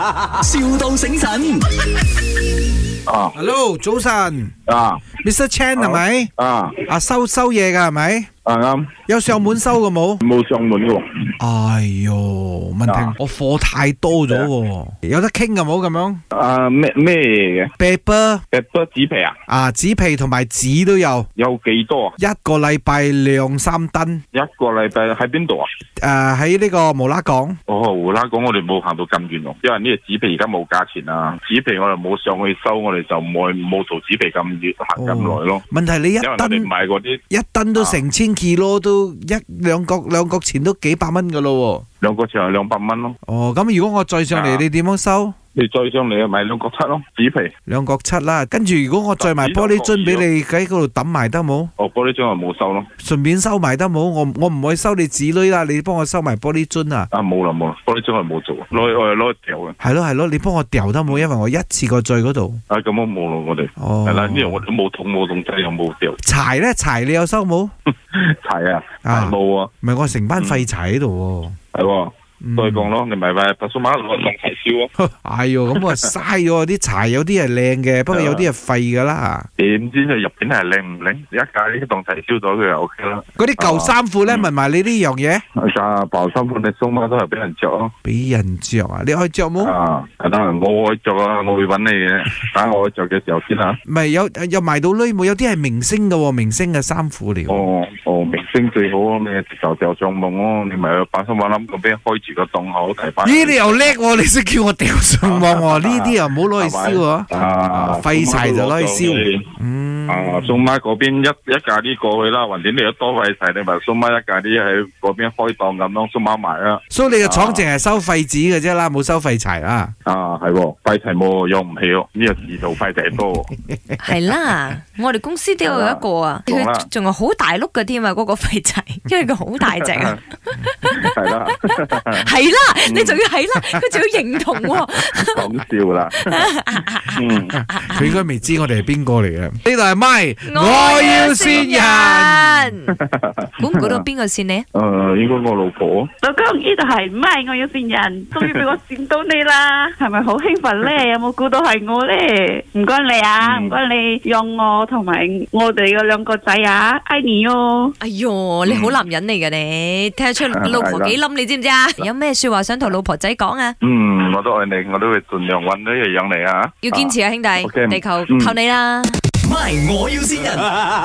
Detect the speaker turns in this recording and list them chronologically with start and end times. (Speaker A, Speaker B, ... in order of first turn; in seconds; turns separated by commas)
Speaker A: 0.2-1.6, Speaker B: 3.1-3.3, Speaker C: 3.3-4.5, Speaker B: 4.7-5.1, Speaker C: 5.2-6.3, Speaker B: 5.8-6.8, Speaker C: 6.9-8.3, Speaker B: 8.4-8.9, Speaker C: 9.1-10.2, Speaker B: 10.2-11.3, Speaker C: 11.4-16.2, Speaker B: 12.9-13.2, Speaker B: 16.3-17.7, Speaker C: 17.8-18.4, Speaker B: 18.5-19.4, Speaker C: 19.5-21.3, Speaker B: 21.4-22.2, Speaker C: 22.2-24.2, Speaker B: 24.3-25.7, Speaker C: 26.0-27.6, Speaker B: 27.7-35.6, Speaker C: 35.0-36.7, Speaker B: 36.2-37.2, Speaker C: 37.3-41.9, Speaker B: 42.0-43.2, Speaker C: 43.3-45.4, Speaker B: 44.3-44.6, Speaker B: 45.5-47.5, Speaker C: 47.7-51.7, Speaker B: 49.2-50.3, Speaker B: 51.8-52.9, Speaker C: 53.0-57.1, Speaker B: 57.1-59.8, Speaker C: 59.8-62.6, Speaker B: 62.7-66.2, Speaker C: 63.8-64.6, Speaker C: 66.2-67.7, Speaker B: 68.1-69.7, Speaker C: 69.0-71.6, Speaker B: 70.4-70.7, Speaker B: 71.7-74.9, Speaker C: 72.4-72.9, Speaker C: 75.0-79.5, Speaker B: 78.1-78.5, Speaker B: 79.6-84.5, Speaker C: 83.4-85.4, Speaker B: 85.5-87.9, Speaker C: 88.0-89.7, Speaker B: 89.6-93.8, Speaker C: 93.9-97.7, Speaker B: 97.5-104.0, Speaker C: 103.2-110.6, Speaker B: 105.2-109.4, Speaker B: 110.1-117.7, Speaker C: 116.9-119.9, Speaker B: 120.0-123.5, Speaker D: 124.0-131.1, Speaker B: 125.6-126.9, Speaker B: 131.0-132.3, Speaker D: 132.2-135.4, Speaker B: 132.9-133.2, Speaker B: 135.3-136.5, Speaker D: 136.2-138.2, Speaker B: 137.2-137.6, Speaker C: 137.8-142.7, Speaker D: 140.4-142.9, Speaker B: 141.3-141.6, Speaker B: 142.9-144.0, Speaker D: 143.6-144.7, Speaker B: 144.7-146.1, Speaker E: 146.2-157.9, Speaker B: 148.4-148.7, Speaker B: 153.4-153.8, Speaker D: 158.0-163.8, Speaker B: 158.7-159.0, Speaker B: 160.6-161.2, Speaker B: 163.8-168.6, Speaker D: 166.8-169.2, Speaker A: 169.4-170.7